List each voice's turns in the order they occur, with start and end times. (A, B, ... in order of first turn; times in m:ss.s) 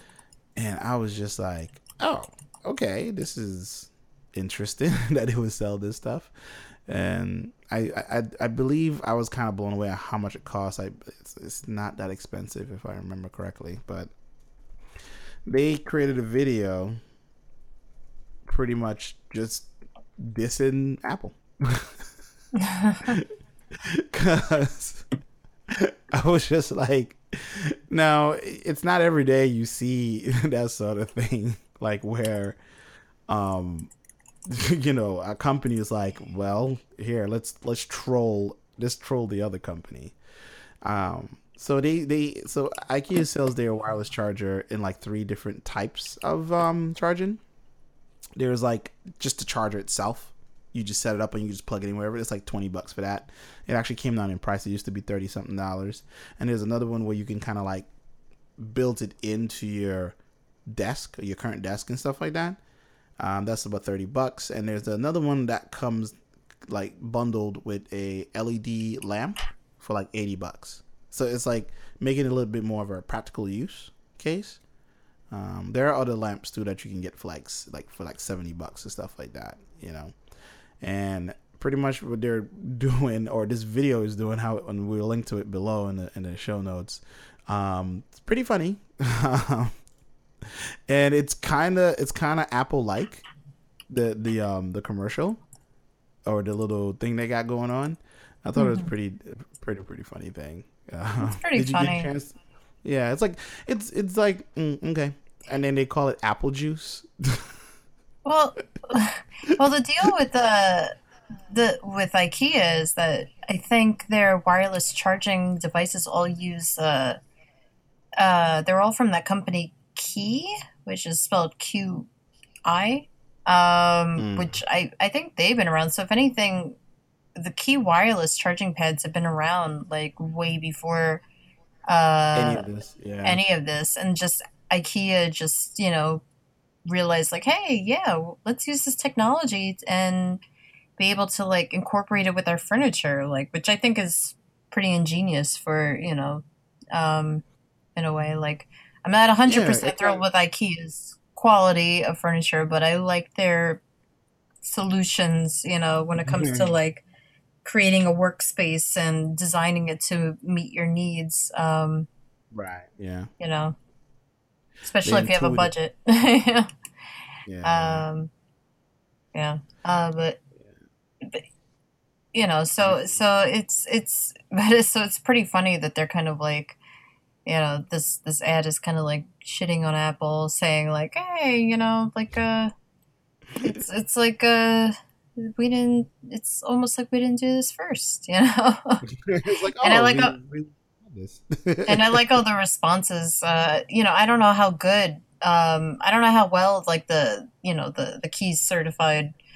0:00.6-0:14.1 A
0:15.4-0:17.0 A
0:18.4-0:22.0 A
0:22.6-0:23.1 B
0:23.0-0:23.3 A
0:23.8-0:25.1 A
0:25.7-0:32.6 A
0:33.3-0:33.9 A
0:34.5-0:40.2 A
0:40.8-0:47.4 A
0:48.4-0:57.9 A
0:58.6-1:00.2 A
1:00.7-1:02.6 A
1:03.2-1:06.2 A
1:06.7-1:14.6 A
1:15.3-1:20.1 A
1:20.8-1:29.7 A
1:30.4-1:33.2 A
1:33.9-1:35.4 A
1:36.2-1:42.3 A
1:38.6-1:38.9 B
1:41.2-1:42.1 B
1:42.8-1:47.5 A
1:48.2-1:50.9 B
1:51.5-1:57.2 B
1:58.2-2:02.1 B
2:02.6-2:06.8 B
2:04.2-2:04.6 A
2:07.4-2:11.2 B
2:11.8-2:12.6 B
2:12.3-2:13.4 A
2:13.2-2:16.2 B
2:16.9-2:20.4 B
2:21.0-2:27.4 B
2:28.0-2:33.8 B
2:29.4-2:30.2 A
2:34.6-2:37.0 B
2:36.2-2:36.7 A
2:37.6-2:42.1 B
2:42.5-2:43.3 A
2:43.4-2:43.8 B
2:44.8-2:46.7 B
2:45.0-2:45.7 A
2:47.4-2:48.1 A
2:47.6-2:48.3 B
2:49.3-2:50.4 B
2:52.3-2:56.8 B
2:52.8-2:53.1 A
2:57.4-3:02.7 B
3:03.6-3:09.0 B
3:09.1-3:12.4 A
3:09.8-3:10.3 B
3:11.8-3:19.3 B